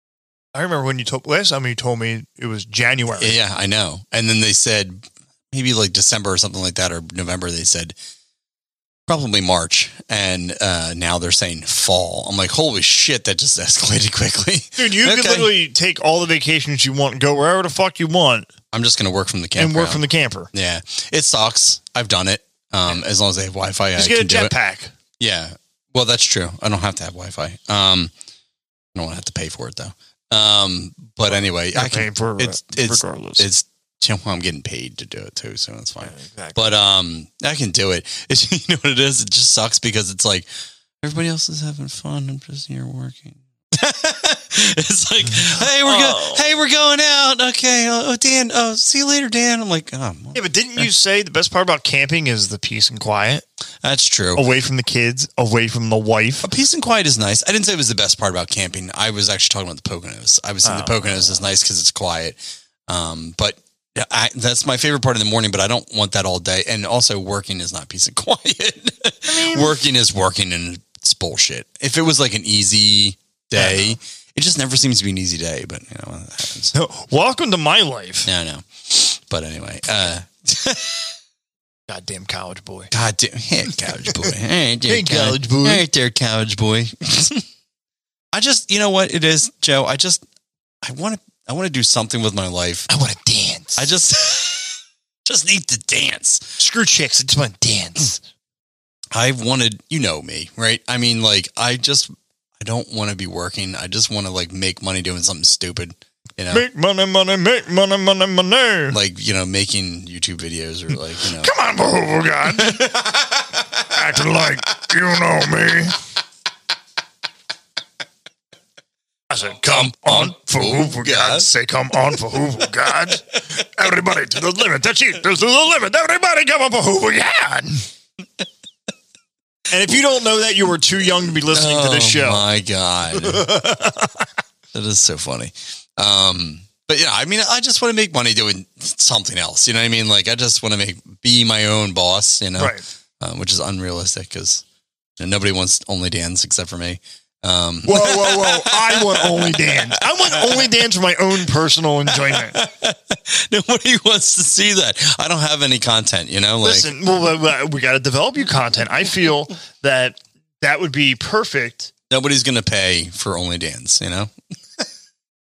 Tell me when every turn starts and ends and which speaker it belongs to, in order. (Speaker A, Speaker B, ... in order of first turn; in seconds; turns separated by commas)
Speaker A: 0.5-3.4, Speaker B: 3.2-8.0, Speaker B: 9.1-15.6, Speaker A: 14.8-18.5, Speaker B: 18.7-24.5, Speaker A: 19.6-20.5, Speaker A: 24.0-24.9, Speaker B: 25.2-28.1, Speaker B: 28.9-40.5, Speaker A: 31.3-33.5, Speaker A: 36.0-36.6, Speaker B: 41.0-50.9, Speaker A: 45.4-46.5, Speaker A: 50.4-53.4, Speaker B: 53.8-54.5, Speaker A: 54.4-56.5, Speaker B: 56.4-76.7, Speaker A: 60.6-61.4, Speaker A: 69.3-69.8, Speaker A: 73.6-74.0, Speaker A: 76.7-78.3, Speaker B: 78.3-81.2, Speaker A: 81.9-82.9, Speaker B: 82.9-87.5, Speaker A: 84.9-85.8, Speaker B: 88.3-90.2, Speaker B: 90.8-92.9, Speaker A: 92.9-93.9, Speaker B: 93.8-96.6, Speaker A: 96.6-98.2, Speaker B: 99.1-106.7, Speaker A: 106.5-109.0, Speaker B: 108.9-111.5, Speaker A: 111.3-113.0, Speaker B: 112.5-113.8, Speaker A: 113.8-116.0, Speaker A: 119.3-127.8, Speaker B: 119.6-121.5, Speaker A: 129.7-132.4, Speaker B: 131.5-133.5, Speaker A: 133.2-134.2, Speaker B: 134.7-144.6, Speaker A: 142.6-142.8, Speaker B: 145.2-150.7, Speaker A: 147.8-152.6, Speaker B: 152.1-156.9, Speaker A: 156.6-161.9, Speaker B: 162.1-164.3